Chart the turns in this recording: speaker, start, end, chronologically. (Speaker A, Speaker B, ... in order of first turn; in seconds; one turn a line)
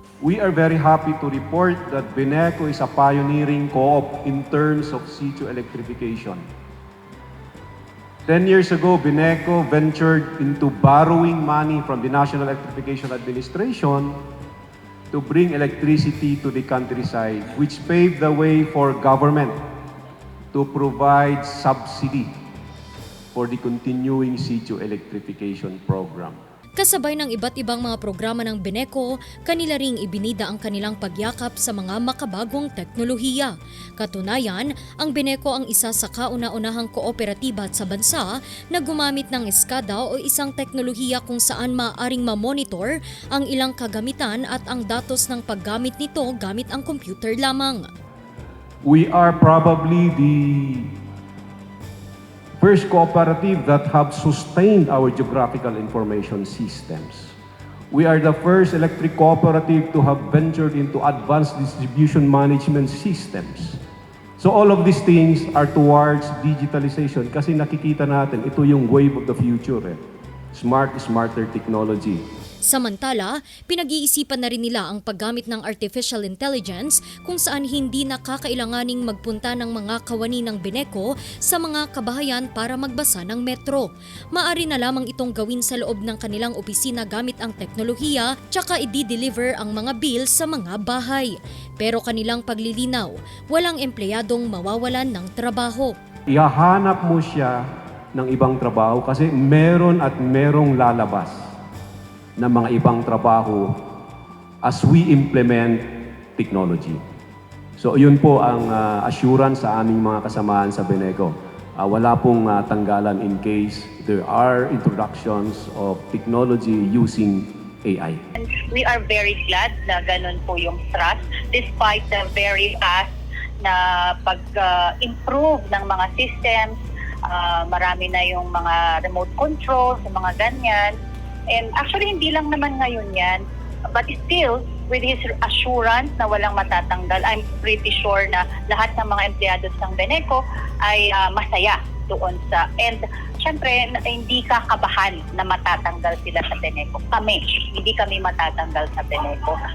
Speaker A: 0.2-6.4
Speaker A: 8.3-14.2
Speaker A: 15.1-19.6
Speaker A: 20.5-22.3
Speaker A: 23.3-26.4
Speaker B: 26.8-47.9
Speaker A: 48.8-50.9
Speaker A: 52.6-57.3
Speaker A: 57.9-63.8
Speaker A: 64.4-70.0
Speaker A: 70.5-72.2
Speaker B: 72.6-96.0
Speaker A: 96.3-101.5
Speaker A: 102.4-103.8
Speaker A: 104.6-105.8
Speaker A: 106.4-107.0
Speaker A: 107.8-118.2
Speaker C: 118.4-123.1
Speaker C: 123.6-126.8
Speaker C: 127.3-130.9
Speaker C: 131.5-149.6